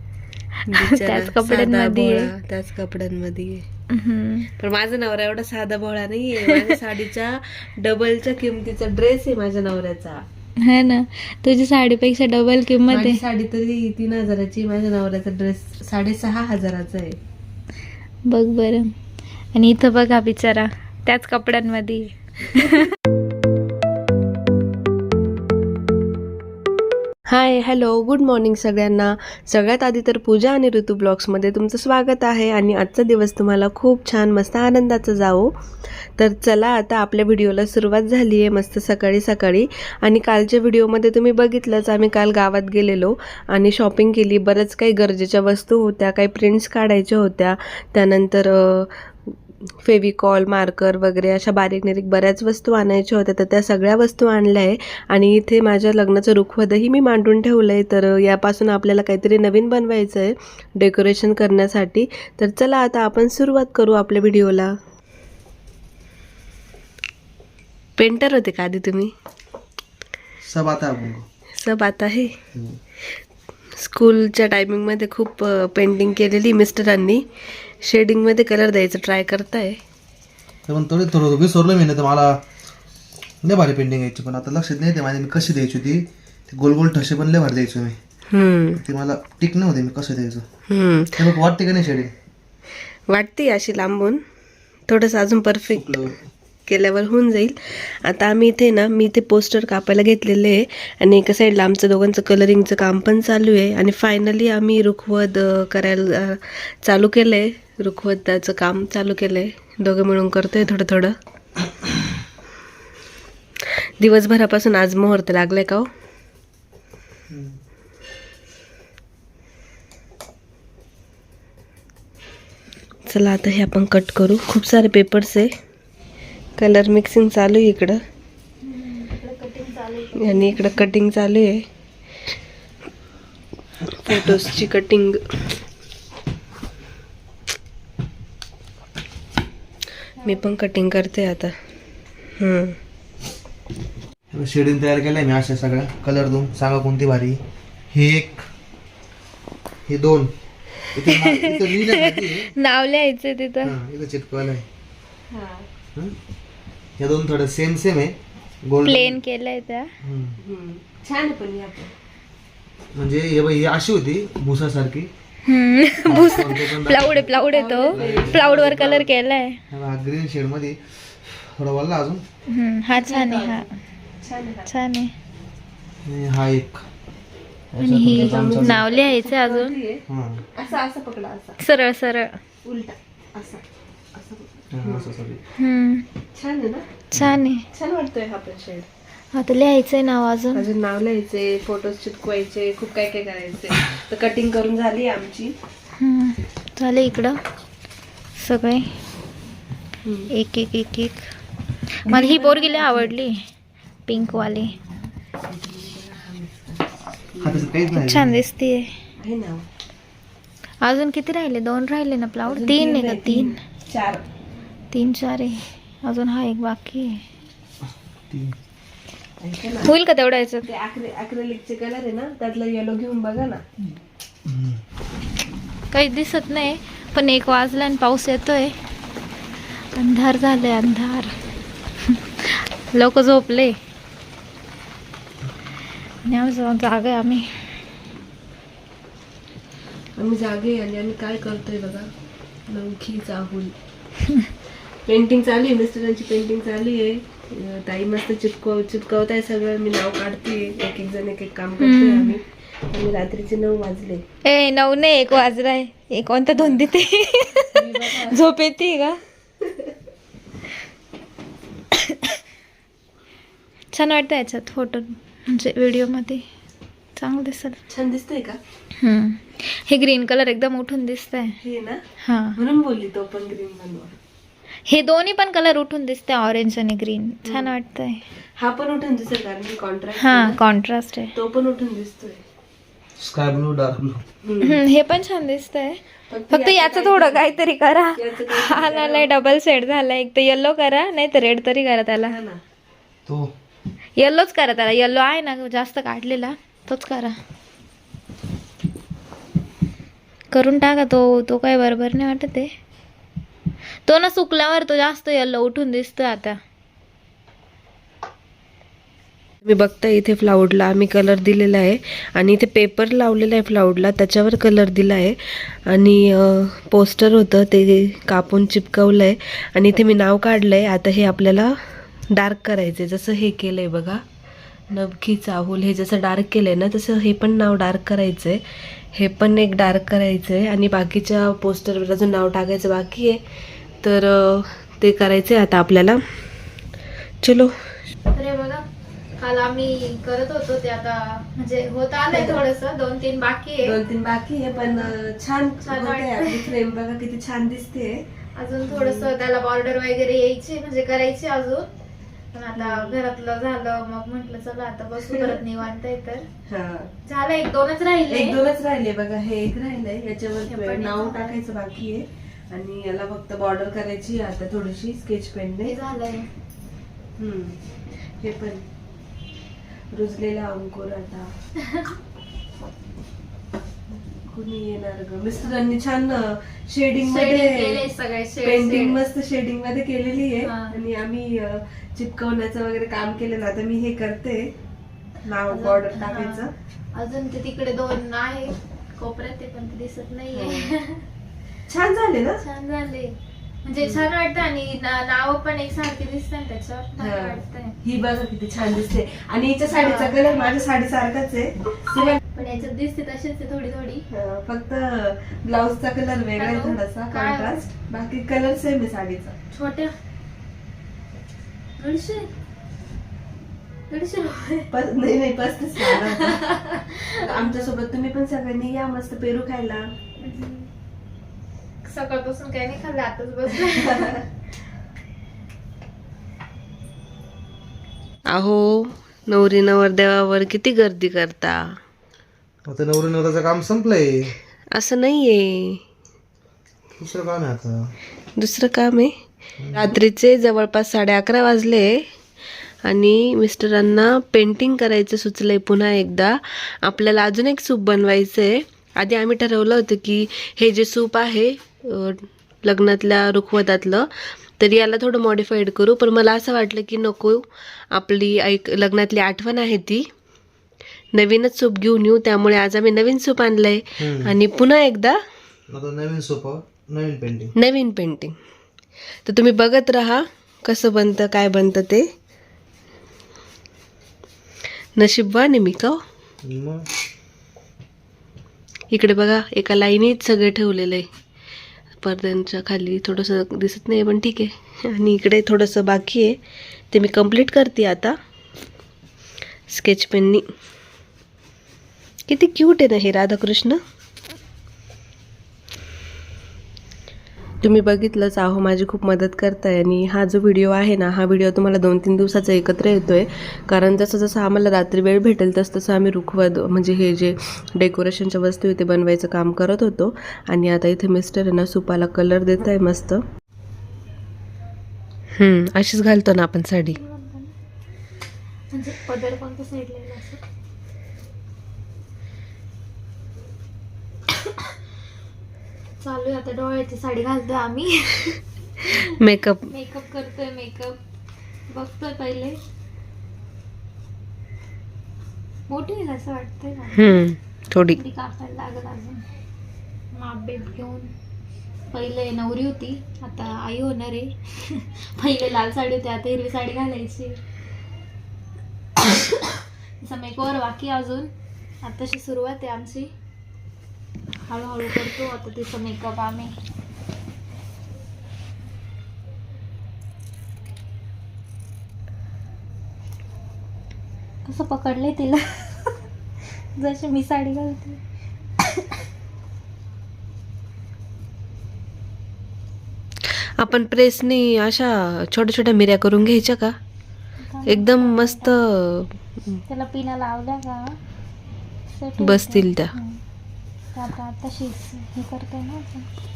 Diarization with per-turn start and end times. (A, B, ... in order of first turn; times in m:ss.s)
0:00.7-0:02.3 A
0:00.7-0:03.6 B
0:03.9-0:04.5 A
0:04.6-0:10.2 B
0:06.5-0:06.7 A
0:10.6-0:13.2 A
0:12.9-0:17.2 B
0:18.3-0:18.9 A
0:19.5-0:22.9 A
0:27.3-0:35.5 B
0:36.2-1:04.7 B
1:08.0-1:09.1 B
1:10.4-1:11.2 C
1:11.6-1:12.3 B
1:13.8-1:17.2 B
1:17.8-1:19.8 B
1:20.7-1:22.3 C
1:23.4-1:28.0 C
1:28.3-1:28.8 B
1:28.8-1:30.4 C
1:30.7-1:31.2 B
1:31.2-1:32.1 C
1:33.1-1:34.2 B
1:34.9-1:36.1 B
1:35.7-1:36.2 C
1:36.7-1:51.1 B
1:54.0-1:55.9 B
1:57.3-1:57.6 C
2:03.1-2:05.5 B
2:06.6-2:08.0 B
2:08.6-2:10.8 A
2:10.2-2:11.6 B
2:13.9-2:15.2 B
2:20.2-2:20.5 A
2:20.2-2:21.5 B
2:22.4-2:22.8 B
2:24.3-2:28.4 C
2:29.9-2:30.3 C
2:30.9-2:32.5 C
2:31.1-2:33.7 A
2:33.6-2:34.6 C
2:35.3-2:35.7 B
2:37.0-2:39.2 C
2:38.8-2:39.9 A
2:40.0-2:40.4 C
2:40.4-2:41.9 B
2:42.9-2:45.1 C
2:45.4-2:49.6 A
2:46.0-2:47.4 C
2:47.5-2:48.9 B
2:47.9-2:49.1 C
2:49.7-2:52.2 C
2:52.5-2:53.7 A
2:52.9-2:53.7 B
2:54.2-2:54.7 B
2:54.7-2:55.1 A
2:56.0-2:56.8 C
2:57.7-2:58.8 C
2:57.8-2:59.8 A
2:58.0-3:00.0 B
3:00.1-3:00.4 C
3:00.5-3:01.6 B
3:01.6-3:02.4 A
3:02.6-3:03.6 B
3:04.1-3:05.1 B
3:04.7-3:05.4 C
3:05.6-3:06.0 A
3:06.3-3:06.8 B
3:07.1-3:07.4 C
3:07.1-3:07.6 A
3:07.7-3:08.9 B
3:09.3-3:10.6 A
3:10.5-3:15.5 B
3:16.0-3:17.4 A
3:18.4-3:18.9 A
3:20.0-3:20.3 B
3:20.3-3:21.2 A
3:22.0-3:23.4 A
3:22.1-3:23.2 B
3:24.1-3:24.7 A
3:25.4-3:27.7 B
3:27.4-3:28.4 C
3:27.9-3:28.9 A
3:29.2-3:29.6 B
3:30.8-3:33.6 A
3:32.4-3:34.2 B
3:34.9-3:37.2 A
3:38.3-3:38.6 C
3:39.4-3:39.9 B
3:39.8-3:40.7 A
3:40.6-3:43.6 B
3:44.5-3:44.8 C
3:45.9-3:48.7 A
3:49.9-3:51.3 A
3:52.0-3:53.8 A
3:56.2-3:57.4 A
4:00.2-4:02.1 B
4:02.7-4:03.7 B
4:05.1-4:14.2 B
4:11.8-4:12.4 A
4:14.4-4:19.2 A
4:17.7-4:18.4 B
4:21.9-4:22.4 A
4:23.9-4:26.4 A
4:27.2-4:27.8 A
4:27.9-4:28.6 B
4:29.0-4:31.6 A
4:31.6-4:32.0 B
4:32.2-4:32.6 A
4:32.6-4:34.1 B
4:34.9-4:38.2 A
4:37.4-4:37.7 B
4:38.6-4:40.6 B
4:40.2-4:41.3 A
4:41.3-4:42.4 B
4:43.2-4:44.2 C
4:44.4-4:44.8 B
4:44.6-4:52.4 A
4:46.3-4:47.5 B
4:48.1-4:49.4 B
4:52.2-4:52.6 B
4:53.2-4:53.5 C
4:54.2-4:57.4 A
5:00.5-5:02.7 A
5:04.0-5:06.6 A
5:09.6-5:21.8 B
5:22.3-5:24.2 B
5:24.9-5:28.6 B
5:29.1-5:33.4 B
5:34.0-5:36.2 B
5:37.4-5:37.7 B
5:38.3-5:38.8 A
5:39.4-5:43.9 A
5:42.3-5:42.6 B
5:43.8-5:48.2 B
5:44.8-5:45.1 A
5:45.8-5:46.7 A
5:48.6-5:51.9 A
5:48.9-5:49.3 B
5:52.5-5:56.4 A
5:52.7-5:53.2 B
5:55.3-5:55.6 B
5:56.7-5:57.1 B
5:57.2-5:58.6 A
5:58.3-6:05.9 B
6:00.6-6:01.6 A
6:05.8-6:06.5 A
6:07.4-6:07.8 B
6:08.4-6:08.8 B
6:10.1-6:11.5 B
6:11.8-6:12.1 A
6:14.3-6:18.0 B
6:17.2-6:19.2 A
6:18.6-6:24.7 B
6:20.6-6:21.0 A
6:25.4-6:26.7 B
6:25.7-6:31.2 A
6:30.5-6:30.9 B
6:31.9-6:32.6 B
6:32.6-6:38.0 A
6:37.2-6:42.9 B
6:39.9-6:40.4 A
6:42.1-6:44.2 A
6:44.3-6:49.5 B
6:46.6-6:47.8 A
6:49.7-6:50.1 A
6:52.0-6:52.5 A
6:54.1-6:54.9 A
6:54.9-6:56.6 B
6:56.0-6:57.9 A
6:57.4-7:00.1 B
7:00.4-7:00.9 A
7:02.0-7:04.4 A
7:03.9-7:04.4 B
7:08.5-7:11.9 B
7:12.8-7:14.6 C
7:14.9-7:16.0 B
7:17.2-7:18.0 C
7:18.6-7:19.3 B
7:19.9-7:22.2 B
7:23.0-7:34.3 B
7:34.8-7:37.6 B
7:38.1-7:40.2 B
7:41.3-7:45.4 B
7:44.2-7:44.5 C
7:45.9-7:47.7 C
7:47.8-7:48.5 B
7:49.4-7:52.2 B
7:55.2-7:56.2 B
7:56.6-7:57.0 C
7:59.1-8:01.2 B
8:02.2-8:06.5 B
8:07.1-8:08.3 B
8:09.9-8:10.6 B
8:12.5-8:14.0 B
8:17.8-8:33.4 B
8:35.5-8:37.2 B
8:37.1-8:37.7 A
8:38.9-8:40.6 A
8:46.2-8:49.3 A
8:49.1-8:49.9 B
8:49.9-8:51.2 A
8:51.9-8:52.8 A
8:55.9-8:57.3 A
8:57.1-8:58.2 B
8:58.1-8:59.4 A
9:00.3-9:01.3 A
9:02.1-9:07.6 A
9:09.2-9:13.3 A
9:14.7-9:16.7 A
9:24.6-9:26.2 A
9:27.0-9:28.2 A
9:33.5-9:36.9 B
9:37.6-9:38.7 A
9:37.9-9:39.8 B
9:39.9-9:41.2 A
9:42.1-9:43.4 A
9:42.4-9:43.1 B
9:44.1-9:46.3 A